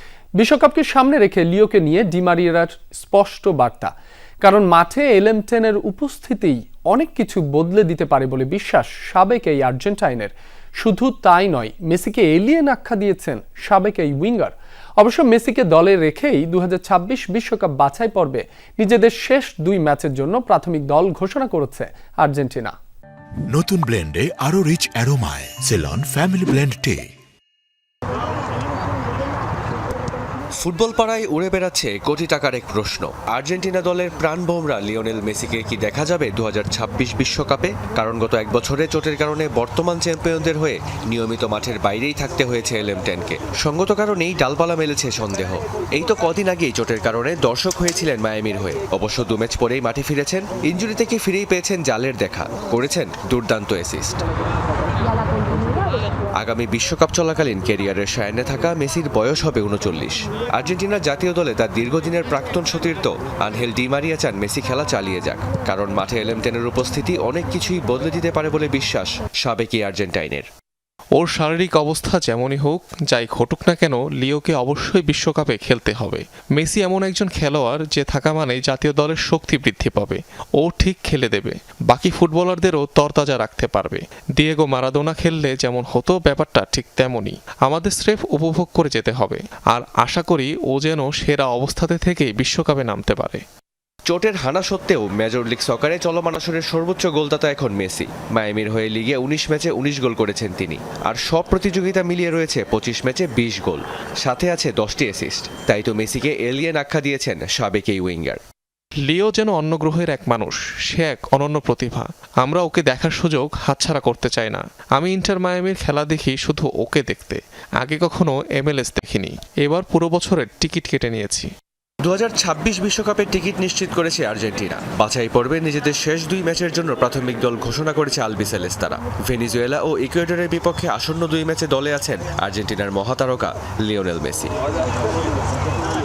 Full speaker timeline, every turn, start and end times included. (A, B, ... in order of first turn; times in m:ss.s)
0:00.4-0:03.9 A
0:04.4-0:22.8 A
0:23.5-0:27.1 B
0:30.6-0:54.2 C
0:56.4-1:10.5 C
1:11.2-1:33.4 D
1:34.1-1:48.4 C
1:49.1-2:01.5 D
2:02.0-2:14.5 C